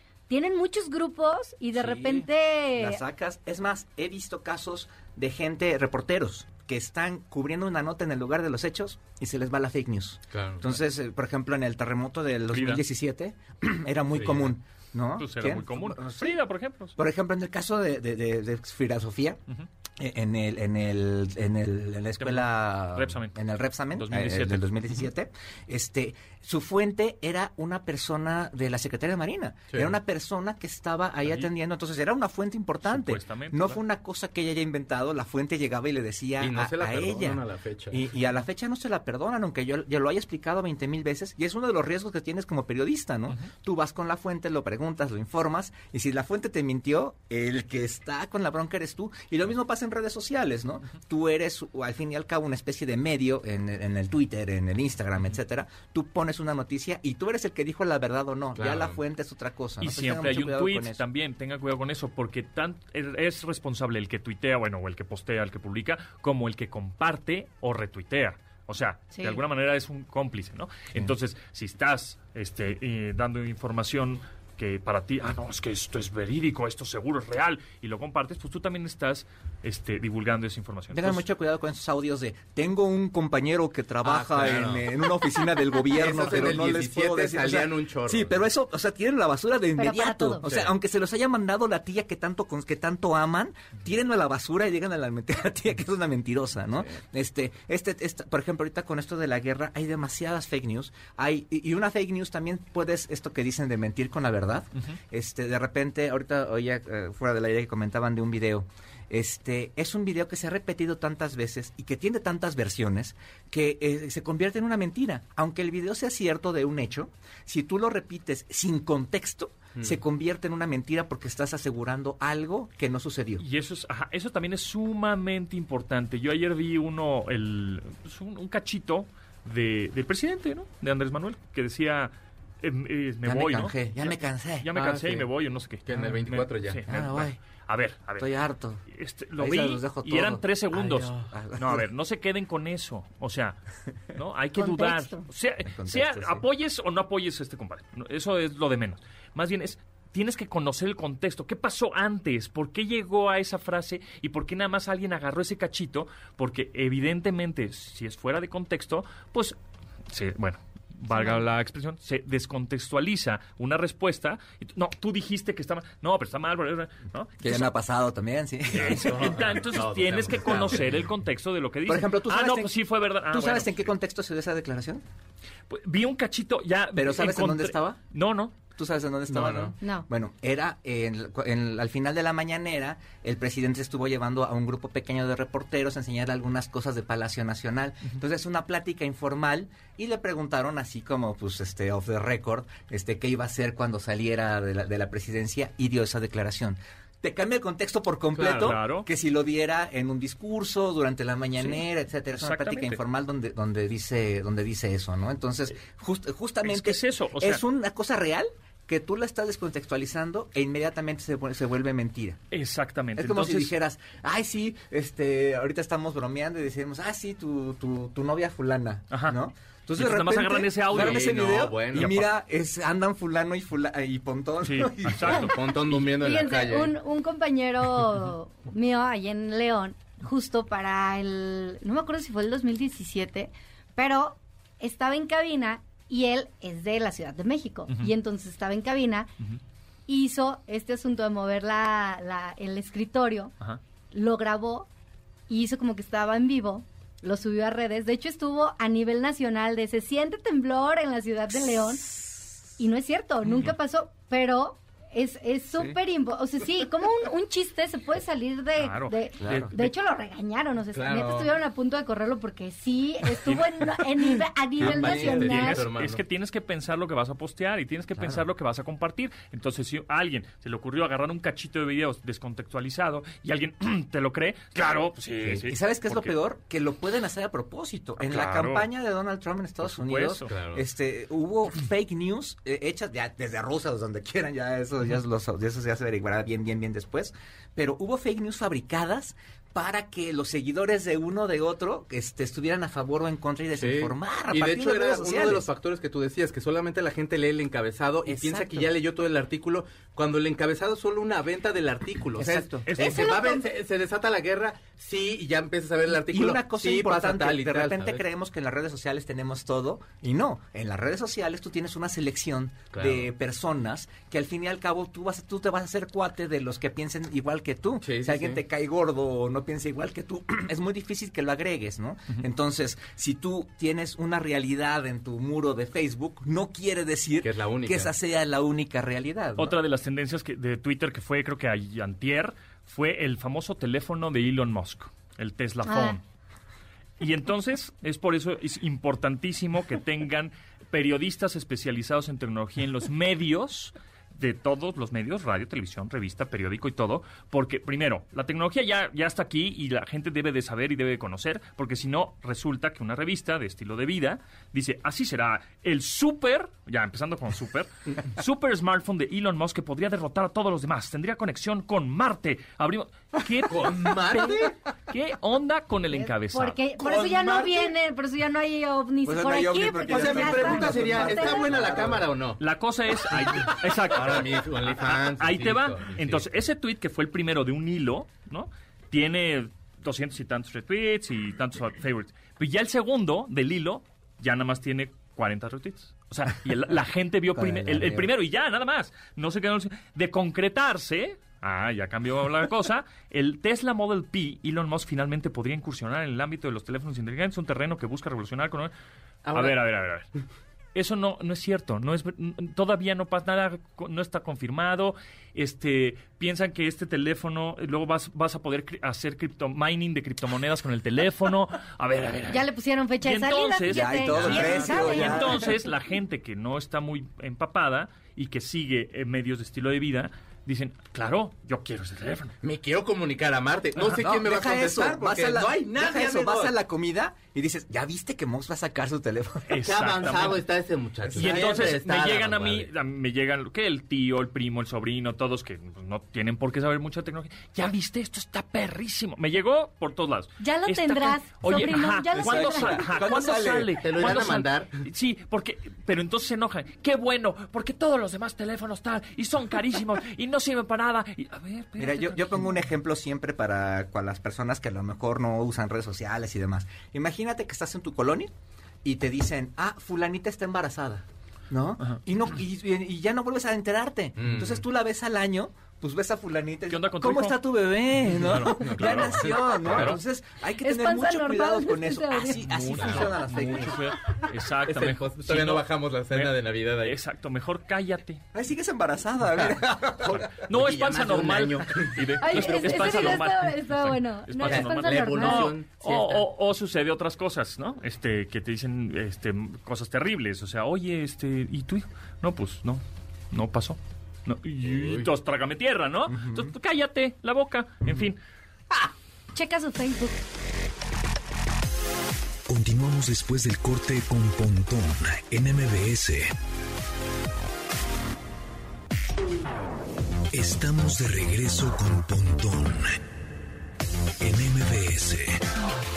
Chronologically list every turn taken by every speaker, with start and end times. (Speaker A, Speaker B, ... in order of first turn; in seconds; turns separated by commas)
Speaker A: 0.3-3.0, Speaker B: 1.8-2.1, Speaker B: 2.8-16.4, Speaker C: 10.3-10.7, Speaker D: 12.5-12.8, Speaker C: 14.1-14.5, Speaker D: 15.2-17.0, Speaker B: 17.0-19.4, Speaker B: 20.0-61.0, Speaker D: 22.2-23.4, Speaker D: 23.9-24.7, Speaker D: 32.9-33.8, Speaker C: 36.4-38.0, Speaker C: 58.6-59.0, Speaker D: 59.8-81.2, Speaker A: 69.1-69.4, Speaker B: 80.9-123.5, Speaker C: 84.0-84.9, Speaker C: 85.9-88.3, Speaker A: 89.8-90.5, Speaker C: 90.5-90.7, Speaker D: 123.4-138.3, Speaker B: 133.2-134.7, Speaker C: 134.7-135.3, Speaker C: 135.9-136.8, Speaker B: 136.9-137.4, Speaker B: 138.2-138.8, Speaker D: 138.9-143.6, Speaker B: 139.4-141.9, Speaker D: 144.1-159.6, Speaker A: 144.6-145.2, Speaker B: 145.7-146.4, Speaker D: 160.1-167.7, Speaker A: 161.1-161.4, Speaker B: 167.4-169.6, Speaker C: 168.7-170.9, Speaker D: 168.7-173.9, Speaker B: 170.5-170.8, Speaker B: 171.9-172.7, Speaker B: 173.3-175.0, Speaker D: 175.7-178.6, Speaker B: 176.9-178.0, Speaker B: 178.8-212.4, Speaker C: 179.3-179.7, Speaker A: 179.8-180.1, Speaker C: 198.4-198.8, Speaker D: 198.4-199.1, Speaker D: 202.4-203.0, Speaker D: 206.6-207.6, Speaker D: 212.5-213.7, Speaker B: 213.2-225.5, Speaker D: 219.1-219.4, Speaker D: 220.0-222.3, Speaker C: 220.9-222.2, Speaker D: 224.6-226.0, Speaker C: 225.2-226.9, Speaker A: 226.1-239.3, Speaker A: 240.1-243.5, Speaker A: 244.1-244.9, Speaker A: 245.5-265.9, Speaker D: 258.8-259.9, Speaker B: 259.4-259.7, Speaker C: 260.9-261.6, Speaker D: 263.4-264.0, Speaker C: 264.8-266.2, Speaker D: 264.9-276.3, Speaker B: 268.2-268.4, Speaker B: 275.5-295.7, Speaker D: 278.2-278.9, Speaker D: 279.8-280.5, Speaker C: 280.5-280.8, Speaker C: 293.8-308.2, Speaker B: 298.3-298.9, Speaker B: 302.4-302.9, Speaker D: 302.9-303.5, Speaker A: 303.0-303.7, Speaker B: 306.1-329.8, Speaker C: 312.9-313.3, Speaker C: 318.0-318.6, Speaker C: 327.4-328.1, Speaker D: 329.6-336.2, Speaker A: 335.9-336.2, Speaker D: 337.2-366.8, Speaker C: 363.7-364.7, Speaker A: 366.1-371.8, Speaker C: 367.0-367.8, Speaker B: 369.2-372.3, Speaker C: 370.1-372.6, Speaker D: 372.6-398.9, Speaker C: 374.1-376.4, Speaker B: 387.5-388.3, Speaker C: 399.4-399.8, Speaker D: 399.5-400.3, Speaker D: 400.9-412.7, Speaker A: 412.5-415.7, Speaker D: 413.2-422.6, Speaker B: 413.9-415.7, Speaker C: 422.6-426.8, Speaker B: 424.1-429.8, Speaker D: 429.7-430.6, Speaker C: 429.8-432.9, Speaker B: 431.2-431.9, Speaker D: 431.3-452.7, Speaker A: 440.6-443.0, Speaker B: 442.4-444.0, Speaker C: 444.0-445.0, Speaker B: 452.0-458.5, Speaker B: 459.0-474.1, Speaker C: 464.4-464.8, Speaker D: 466.9-470.2, Speaker C: 468.5-470.2, Speaker A: 470.8-472.7, Speaker D: 472.6-478.4, Speaker C: 473.0-473.4, Speaker C: 474.9-477.2, Speaker B: 478.5-480.6, Speaker D: 480.4-498.4, Speaker C: 480.7-483.4, Speaker A: 482.4-485.8, Speaker C: 484.6-486.4, Speaker C: 494.8-495.3, Speaker B: 496.3-496.7, Speaker A: 499.5-500.4, Speaker E: 502.7-506.5, Speaker E: 510.5-513.2, Speaker E: 514.4-515.6